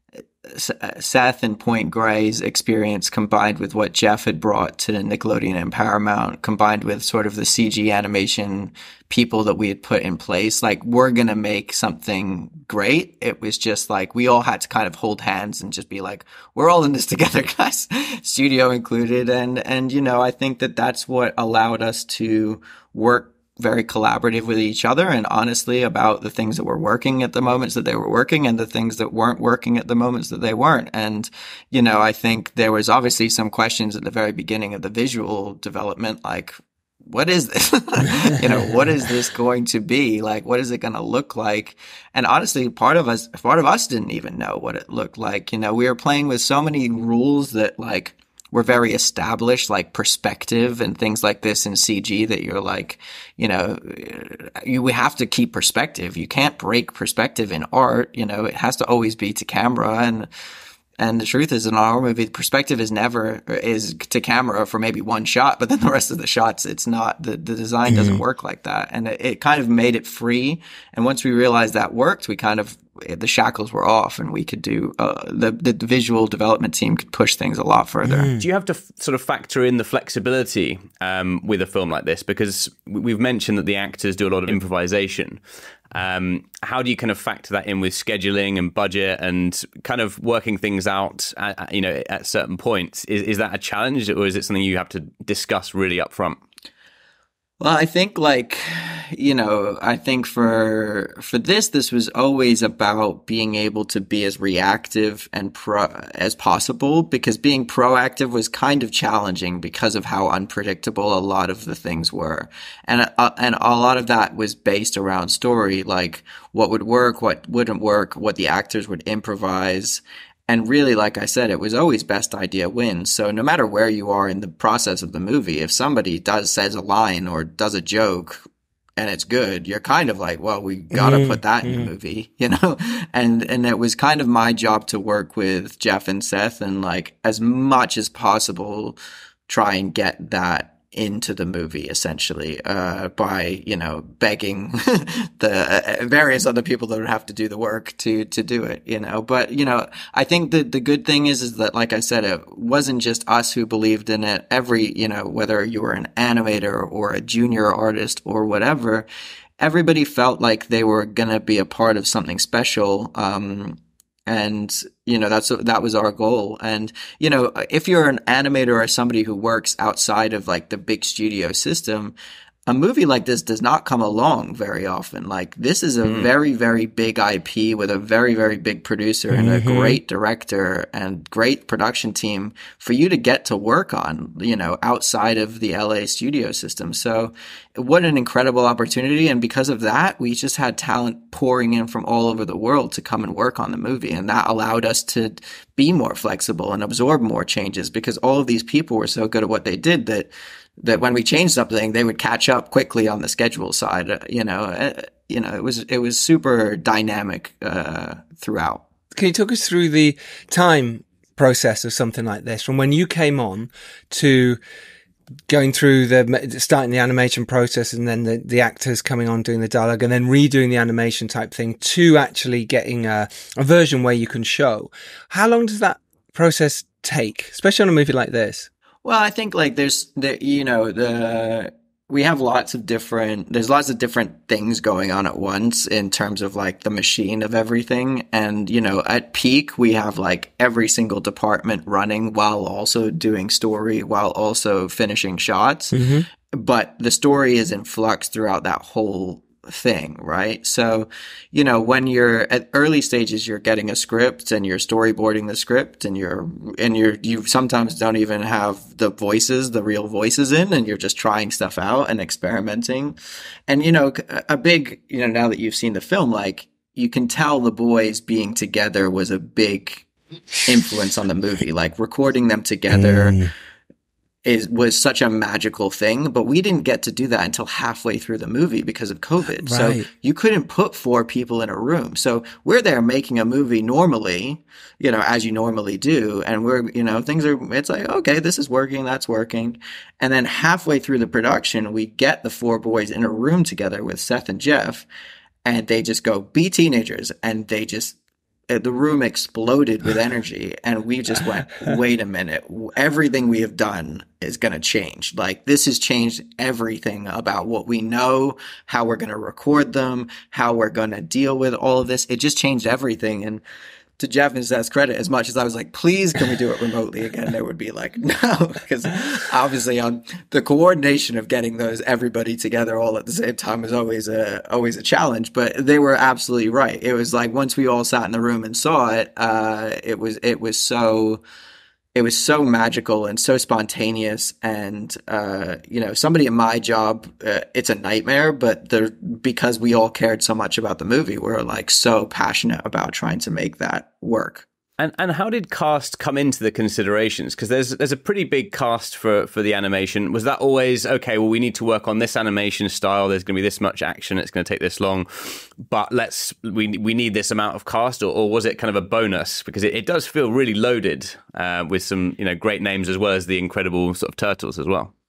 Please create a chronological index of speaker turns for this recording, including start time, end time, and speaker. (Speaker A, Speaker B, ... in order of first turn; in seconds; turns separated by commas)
Speaker A: 0.5-36.5, Speaker A: 37.0-60.3, Speaker A: 61.0-78.3, Speaker B: 67.9-68.2, Speaker B: 78.0-78.4, Speaker C: 78.4-85.4, Speaker C: 85.9-96.4, Speaker A: 97.6-128.4, Speaker A: 129.0-159.1, Speaker B: 130.9-131.9, Speaker A: 159.6-172.1, Speaker A: 172.7-208.8, Speaker C: 176.0-176.3, Speaker B: 179.3-180.0, Speaker B: 209.1-214.6, Speaker B: 215.5-228.7, Speaker A: 229.0-263.2, Speaker B: 245.9-246.3, Speaker A: 263.7-270.1, Speaker A: 270.6-273.4, Speaker B: 272.9-273.5, Speaker A: 274.4-295.1, Speaker B: 279.6-280.1, Speaker A: 295.6-298.2, Speaker A: 298.7-313.6, Speaker A: 314.2-331.4, Speaker A: 332.1-344.6, Speaker C: 345.0-365.1